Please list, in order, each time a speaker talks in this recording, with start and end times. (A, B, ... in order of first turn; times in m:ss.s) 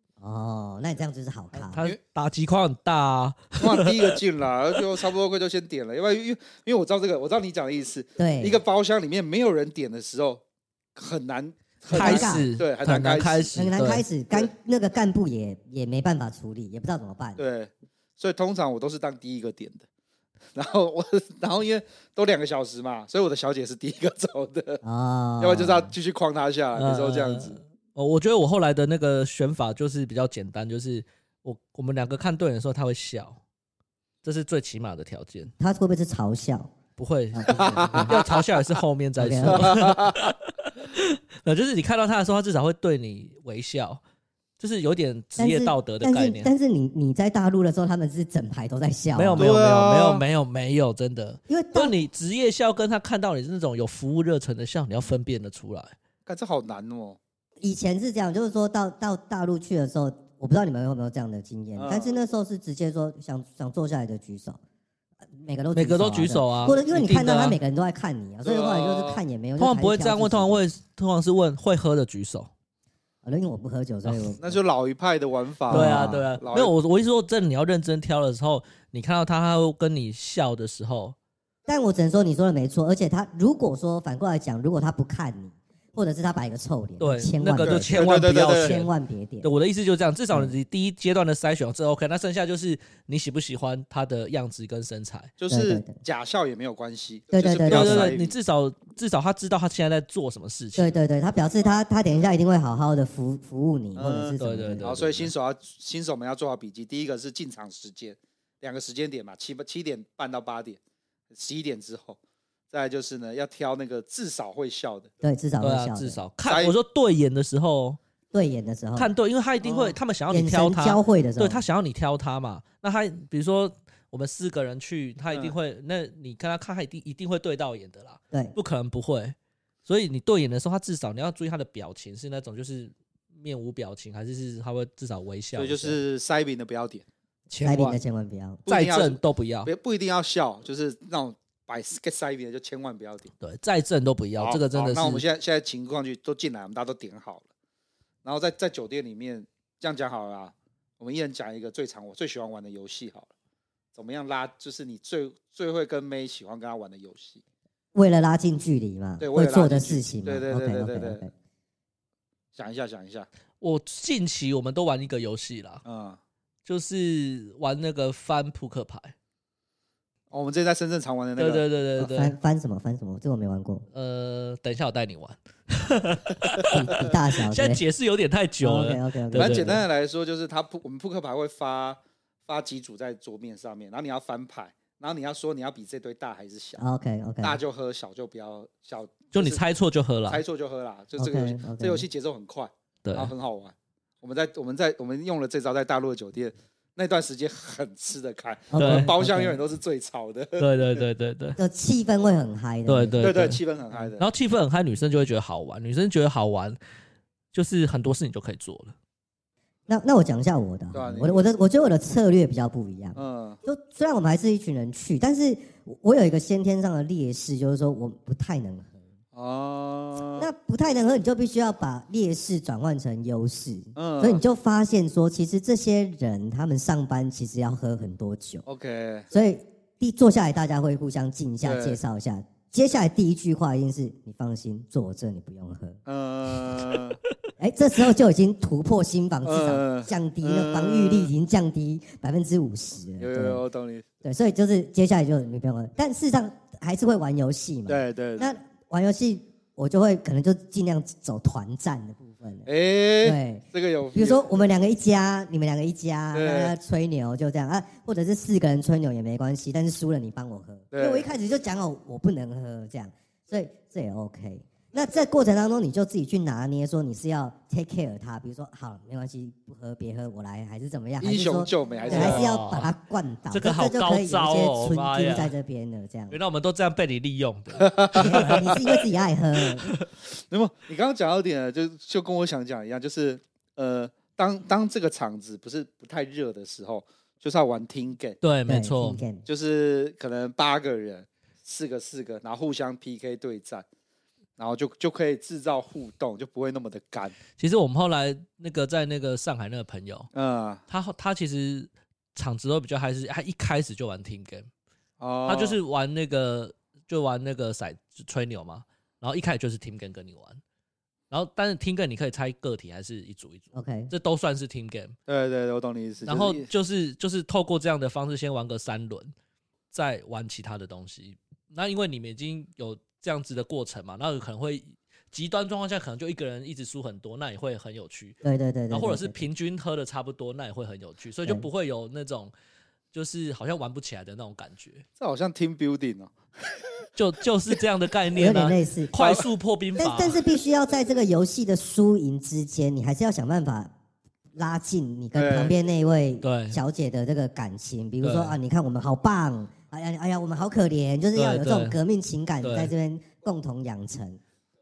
0:00.2-0:01.9 A
0:01.5-0:04.2 B
0:03.6-0:10.4 C
0:08.2-0:08.6 A
0:11.0-0:13.6 C
0:11.9-0:12.5 A
0:11.9-0:14.0 B
0:13.6-0:17.4 A
0:17.4-0:19.9 C
0:20.5-0:24.8 C
0:24.8-0:25.9 A
0:25.4-0:27.6 C
0:26.8-0:33.4 B
0:34.2-0:35.5 B
0:35.6-0:36.7 A
0:37.0-0:44.0 B
0:37.3-0:38.1 A
0:37.6-0:38.4 C
0:39.2-0:39.8 A
0:39.5-0:40.2 C
0:44.6-0:46.5 B
0:45.4-0:49.5 A
0:49.2-0:56.0 B
0:49.4-0:50.2 C
0:51.5-0:52.0 A
0:56.3-0:57.2 C
0:57.6-1:04.6 A
1:01.8-1:02.2 C
1:05.4-1:10.6 A
1:05.8-1:07.6 B
1:08.4-1:09.2 C
1:09.6-1:12.5 B
1:13.2-1:14.6 A
1:14.0-1:14.3 B
1:14.4-1:16.7 C
1:15.7-1:21.2 B
1:15.7-1:16.2 A
1:21.7-1:29.5 A
1:27.0-1:28.9 B
1:27.6-1:28.8 C
1:29.4-1:35.3 B
1:35.4-1:38.3 C
1:35.5-1:36.0 A
1:37.3-1:38.1 A
1:37.7-1:41.0 B
1:40.8-1:44.9 A
1:44.0-1:50.8 C
1:44.4-1:45.3 B
1:51.3-1:52.2 C
1:52.7-1:55.1 C
1:55.2-1:56.2 A
1:55.6-1:58.0 B
1:56.5-1:56.8 C
1:58.3-1:59.1 A
1:59.0-2:16.0 B
1:59.6-2:00.0 C
2:00.3-2:01.6 A
2:15.6-2:17.1 C
2:17.5-2:18.0 B
2:17.6-2:18.6 A
2:17.7-2:17.9 C
2:18.7-2:23.3 C
2:18.7-2:19.7 B
2:23.4-2:25.2 B
2:24.4-2:27.5 C
2:28.2-2:33.3 C
2:34.0-2:37.4 C
2:38.0-2:41.3 A
2:39.2-2:41.2 C
2:42.6-2:43.3 C
2:43.6-2:45.8 B
2:45.8-2:46.2 C
2:46.6-2:49.2 B
2:50.3-2:51.6 C
2:51.4-2:52.4 B
2:52.0-2:53.9 A
2:53.9-2:59.8 B
2:56.6-2:57.8 A
2:58.6-2:59.8 A
2:59.4-3:06.8 C
3:06.8-3:07.6 A
3:07.4-3:09.6 C
3:09.3-3:10.4 B
3:10.3-3:21.0 C
3:11.2-3:12.1 A
3:13.0-3:13.3 B
3:18.7-3:19.6 A
3:18.8-3:19.1 B
3:20.6-3:21.6 B
3:21.6-3:23.3 A
3:22.9-3:23.6 B
3:23.2-3:24.2 C
3:24.2-3:26.8 B
3:27.5-3:29.0 B
3:29.9-3:39.0 A
3:30.9-3:31.4 C
3:33.2-3:33.6 C
3:39.3-3:40.4 C
3:40.4-3:48.6 A
3:44.0-3:44.4 C
3:48.7-3:49.3 C
3:49.3-3:56.0 A
3:51.6-3:52.0 C
3:56.1-3:57.2 C
3:57.6-4:03.6 A
3:59.4-4:01.3 C
4:03.2-4:04.0 C
4:04.2-4:12.7 A
4:07.9-4:08.5 C
4:12.7-4:14.4 C
4:13.2-4:36.4 A
4:16.3-4:16.8 C
4:20.9-4:21.3 C
4:31.2-4:32.5 C
4:32.1-4:32.9 B
4:33.5-4:35.5 B
4:36.3-4:38.8 B
4:37.8-4:38.6 C
4:38.1-4:39.9 A
4:40.3-4:48.4 C
4:48.4-4:49.2 B
4:48.7-4:49.4 A
4:49.4-4:53.8 C
4:54.6-4:57.4 C
4:57.6-5:00.3 B
5:00.3-5:00.8 C
5:00.9-5:04.7 B
5:05.2-5:05.8 C
5:05.5-5:10.6 B
5:11.3-5:15.2 B
5:13.7-5:14.1 A
5:15.3-5:16.7 C
5:16.2-5:19.3 B
5:19.9-5:28.4 B
5:28.4-5:29.4 A
5:28.9-5:32.5 B
5:33.1-5:35.0 B
5:35.2-5:37.0 C
5:37.2-5:40.4 B
5:38.4-5:39.2 A
5:39.2-5:39.5 C
5:40.0-5:43.9 A
5:44.6-5:54.4 A
5:45.4-5:45.7 C
5:46.4-5:46.8 B
5:48.2-5:48.6 B
5:51.4-5:52.0 B
5:52.6-5:52.9 B